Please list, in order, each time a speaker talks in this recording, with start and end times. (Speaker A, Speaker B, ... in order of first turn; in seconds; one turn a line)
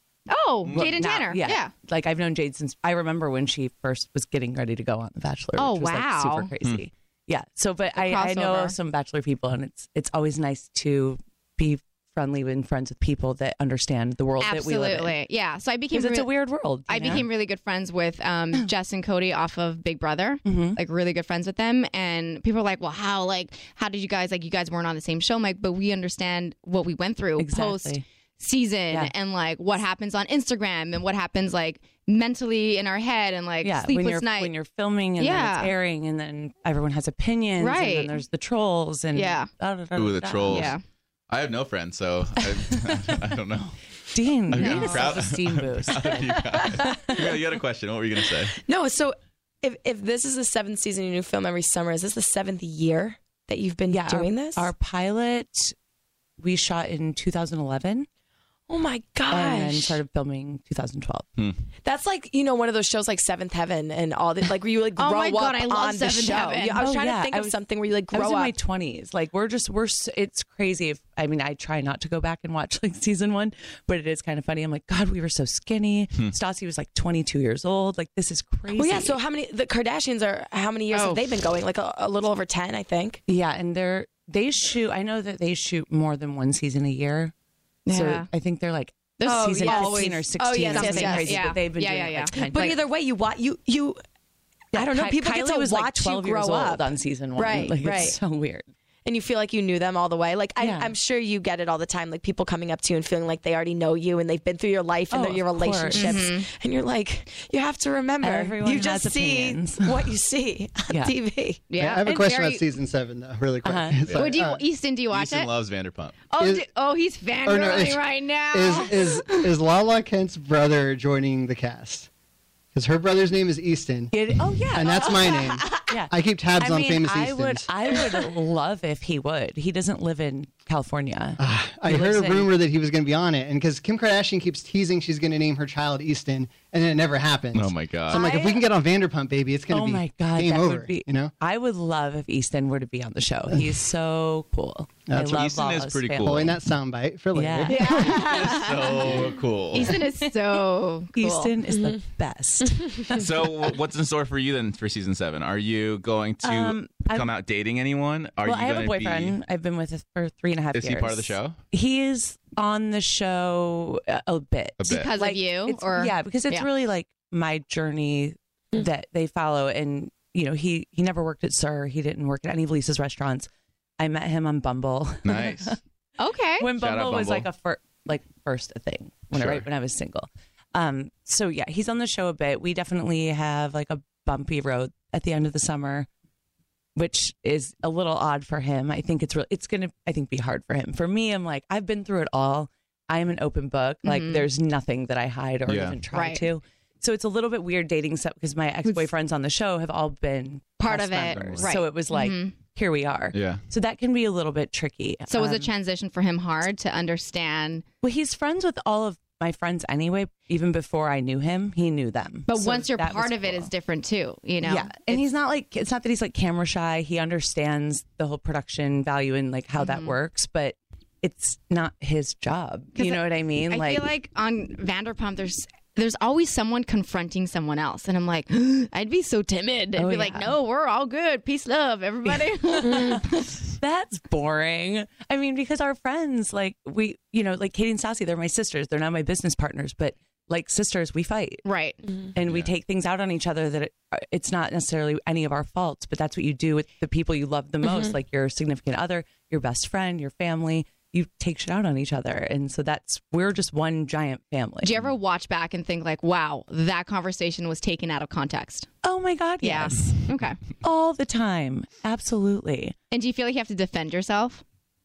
Speaker A: 0.3-1.7
Speaker B: 0.6-0.9
Speaker C: 0.7-15.2
Speaker A: 5.6-6.5
Speaker A: 7.9-8.8
Speaker A: 14.4-16.3
Speaker C: 15.9-17.3
Speaker A: 16.9-34.5
Speaker C: 20.4-20.8
Speaker C: 27.4-28.0
Speaker C: 33.6-40.8
Speaker A: 35.2-35.7
Speaker A: 37.6-38.2
Speaker A: 39.1-39.5
Speaker B: 40.0-40.8
Speaker A: 40.5-40.8
Speaker B: 41.3-48.5
Speaker C: 42.4-43.3
Speaker C: 44.1-47.4
Speaker A: 44.5-45.2
Speaker D: 48.7-54.7
Speaker C: 53.9-55.7
Speaker C: 56.4-58.1
Speaker D: 58.7-60.0
Speaker C: 59.3-61.3
Speaker D: 61.8-68.5
Speaker A: 65.0-66.8
Speaker C: 66.8-67.6
Speaker C: 68.1-79.2
Speaker D: 78.7-83.2
Speaker A: 80.9-81.2
Speaker C: 83.3-87.3
Speaker A: 87.9-88.3
Speaker C: 87.9-92.9
Speaker A: 89.2-92.3
Speaker D: 89.3-91.6
Speaker D: 92.3-94.0
Speaker C: 94.7-98.7
Speaker D: 94.7-98.2
Speaker D: 99.0-111.7
Speaker C: 100.6-100.9
Speaker C: 105.1-106.3
Speaker A: 105.9-106.5
Speaker C: 108.2-110.1
Speaker C: 110.9-111.2
Speaker A: 111.7-112.7
Speaker E: 111.7-114.6
Speaker C: 113.6-114.1
Speaker A: 114.2-115.5
Speaker B: 115.1-116.2
Speaker A: 116.3-119.5
Speaker E: 116.4-116.7
Speaker E: 117.4-122.1
Speaker E: 122.7-124.1
Speaker C: 124.1-132.5
Speaker E: 124.7-127.7
Speaker A: 124.9-125.8
Speaker E: 131.4-141.3
Speaker B: 137.5-138.2
Speaker C: 138.1-138.7
Speaker C: 139.7-146.5
Speaker E: 145.1-145.5
Speaker B: 145.2-146.5
Speaker E: 146.2-148.5
Speaker C: 147.3-148.2
Speaker A: 147.7-151.5
Speaker B: 148.3-150.0
Speaker C: 151.2-153.5
Speaker D: 151.7-152.0
Speaker B: 153.1-159.4
Speaker C: 156.4-157.3
Speaker C: 158.4-175.8
Speaker B: 160.7-161.6
Speaker B: 164.8-165.1
Speaker A: 164.9-166.7
Speaker B: 175.2-175.8
Speaker A: 176.2-176.7
Speaker C: 176.6-186.1
Speaker B: 176.8-177.5
Speaker B: 179.3-179.6
Speaker C: 186.9-205.7
Speaker A: 194.0-194.4
Speaker B: 195.7-196.0
Speaker A: 196.1-196.4
Speaker A: 198.8-199.1
Speaker A: 200.8-202.6
Speaker B: 201.3-201.7
Speaker B: 203.3-203.6
Speaker A: 205.3-207.8
Speaker C: 208.0-213.7
Speaker A: 212.5-215.2
Speaker C: 214.6-224.1
Speaker A: 219.8-220.2
Speaker A: 222.9-233.6
Speaker C: 229.9-230.6
Speaker C: 232.2-241.6
Speaker D: 232.9-233.2
Speaker A: 241.6-242.0
Speaker C: 242.3-255.0
Speaker B: 242.4-242.7
Speaker D: 247.8-248.1
Speaker A: 254.8-258.9
Speaker C: 259.0-262.9
Speaker A: 259.6-260.6
Speaker A: 263.1-264.6